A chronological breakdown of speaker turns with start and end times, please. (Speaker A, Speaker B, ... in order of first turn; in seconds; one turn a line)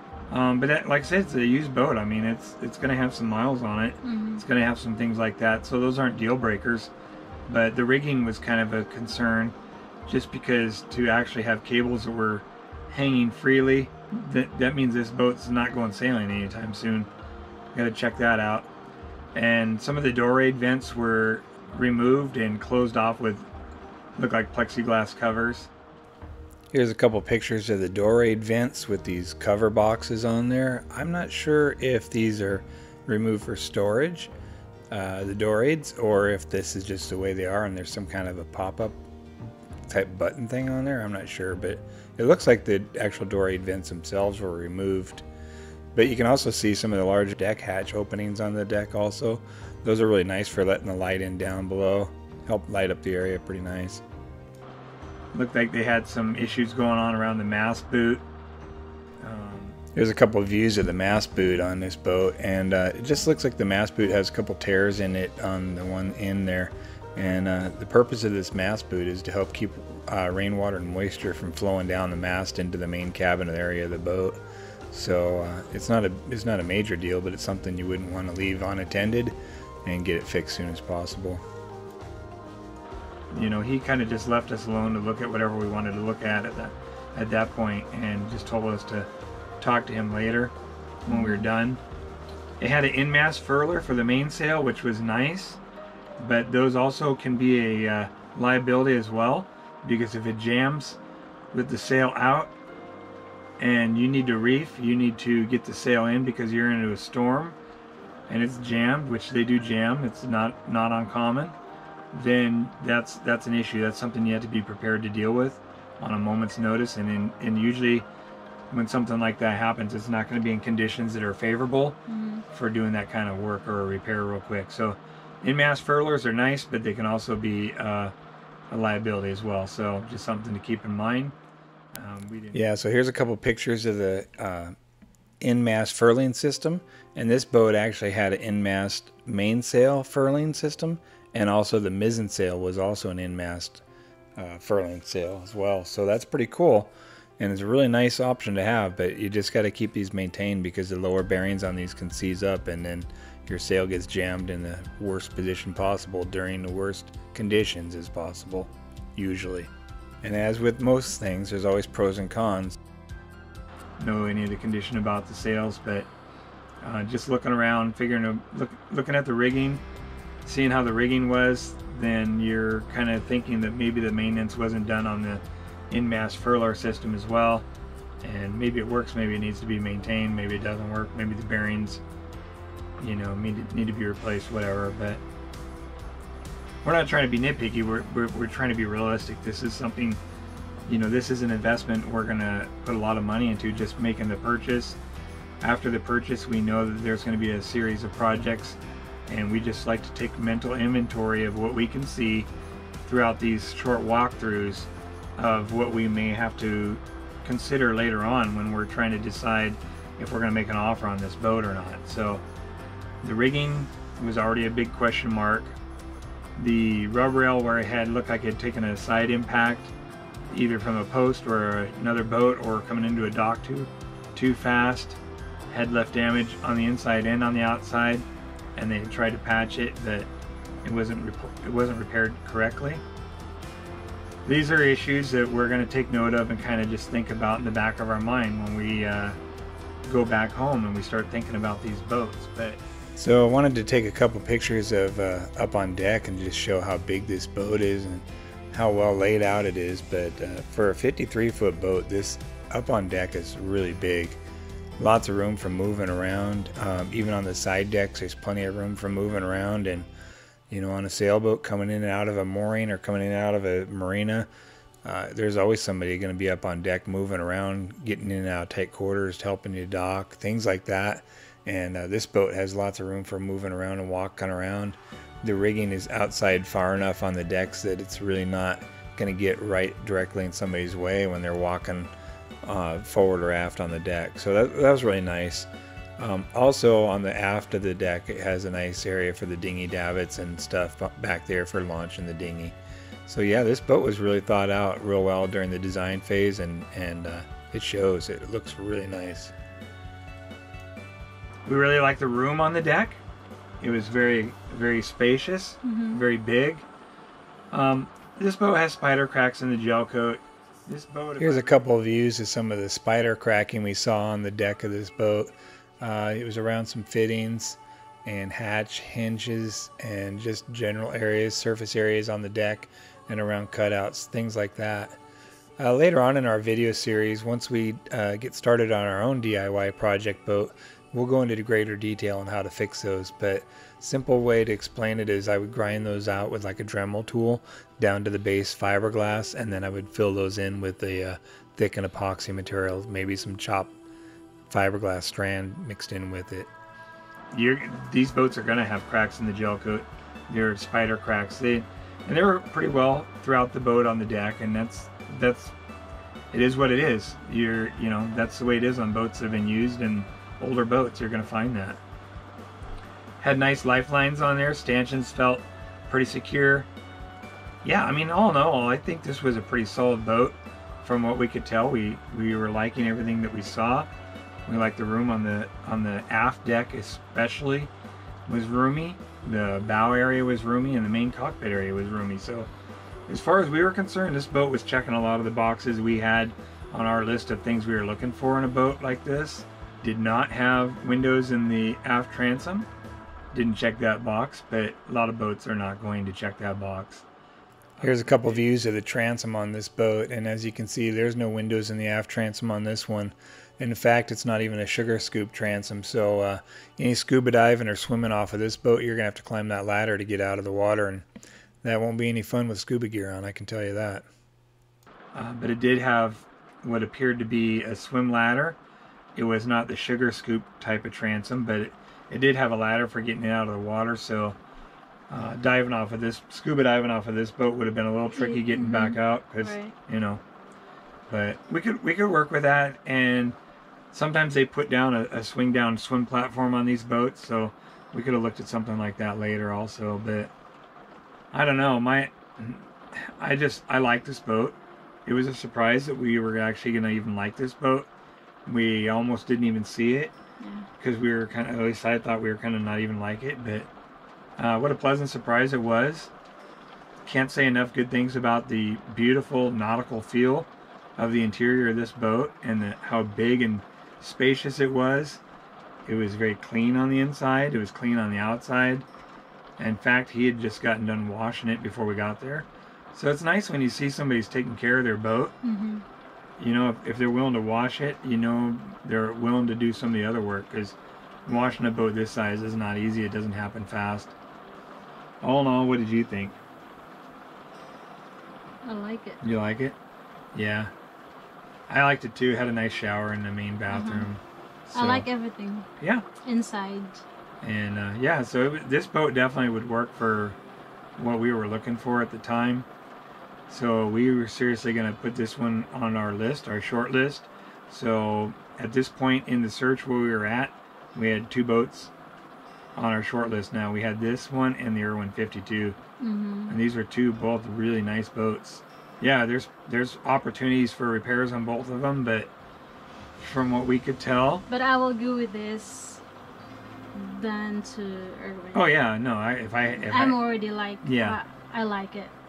Speaker A: 0.3-6.9
Speaker B: 4.0-4.4
Speaker A: 7.5-9.5
Speaker A: 10.1-17.1
Speaker A: 17.7-18.7
Speaker A: 19.3-23.5
Speaker A: 24.2-25.7
Speaker C: 26.7-34.3
Speaker C: 34.9-39.0
Speaker C: 39.9-45.2
Speaker C: 45.9-54.0
Speaker A: 55.3-58.2
Speaker A: 59.2-59.8
Speaker C: 59.9-74.4
Speaker C: 74.9-81.4
Speaker A: 83.3-89.1
Speaker A: 89.6-90.5
Speaker A: 91.0-91.8
Speaker B: 91.1-91.5
Speaker A: 92.6-95.6
Speaker A: 96.2-101.0
Speaker A: 101.5-102.5
Speaker A: 103.6-107.6
Speaker A: 108.3-111.5
Speaker A: 112.1-118.1
Speaker A: 118.7-122.0
Speaker B: 122.1-122.5
Speaker A: 122.5-128.1
Speaker A: 128.7-131.3
Speaker A: 131.9-132.7
Speaker C: 132.5-134.7
Speaker C: 135.4-143.8
Speaker C: 144.4-159.7
Speaker C: 160.2-162.8
Speaker A: 164.0-166.1
Speaker A: 166.8-169.8
Speaker A: 170.4-177.7
Speaker A: 178.2-182.0
Speaker A: 183.0-185.2
Speaker A: 186.8-190.2
Speaker A: 190.9-195.0
Speaker A: 195.6-202.5
Speaker A: 203.0-212.4
Speaker A: 213.2-215.7
Speaker A: 216.6-219.9
Speaker A: 220.5-228.2
Speaker A: 228.8-230.3
Speaker A: 230.8-233.0
Speaker A: 234.4-239.4
Speaker A: 240.0-242.8
Speaker C: 243.2-254.4
Speaker C: 255.0-260.1
Speaker C: 260.7-264.5
Speaker C: 265.0-282.1
Speaker C: 282.6-292.7
Speaker C: 293.3-299.5
Speaker A: 301.6-303.2
Speaker A: 303.8-306.8
Speaker B: 305.8-306.3
Speaker A: 307.7-311.8
Speaker C: 311.4-325.2
Speaker C: 325.8-343.9
Speaker C: 344.7-346.7
Speaker A: 347.5-355.7
Speaker A: 356.5-362.0
Speaker A: 363.4-366.9
Speaker A: 367.8-374.1
Speaker A: 374.7-377.9
Speaker A: 378.5-382.7
Speaker A: 383.3-392.9
Speaker A: 393.5-397.2
Speaker A: 398.0-398.6
Speaker C: 398.0-411.2
Speaker C: 411.8-414.2
Speaker A: 415.3-418.8
Speaker A: 419.3-424.6
Speaker A: 425.3-430.4
Speaker B: 428.3-429.9
Speaker A: 431.3-433.5
Speaker A: 434.1-440.5
Speaker A: 441.5-448.1
Speaker A: 448.6-450.3
Speaker B: 450.6-450.9
Speaker A: 451.0-453.9
Speaker A: 454.6-456.3
Speaker A: 457.2-465.4
Speaker A: 466.1-469.1
Speaker A: 469.8-475.5
Speaker B: 475.6-476.0
Speaker A: 476.6-484.3
Speaker A: 485.4-486.6
Speaker B: 488.8-489.4
Speaker A: 489.4-489.9
Speaker A: 490.5-490.9
Speaker A: 491.9-494.4
Speaker B: 493.9-494.3
Speaker B: 494.9-495.9
Speaker A: 494.9-495.2
Speaker A: 496.0-496.2
Speaker B: 496.4-497.2
Speaker A: 497.6-500.6
Speaker A: 501.2-502.9
Speaker A: 503.7-512.1
Speaker A: 513.0-516.0
Speaker B: 516.2-516.8
Speaker A: 516.7-522.5
Speaker A: 523.4-524.6
Speaker B: 524.7-526.2
Speaker B: 527.1-528.9
Speaker A: 528.7-530.4
Speaker B: 530.0-532.3
Speaker A: 531.0-531.4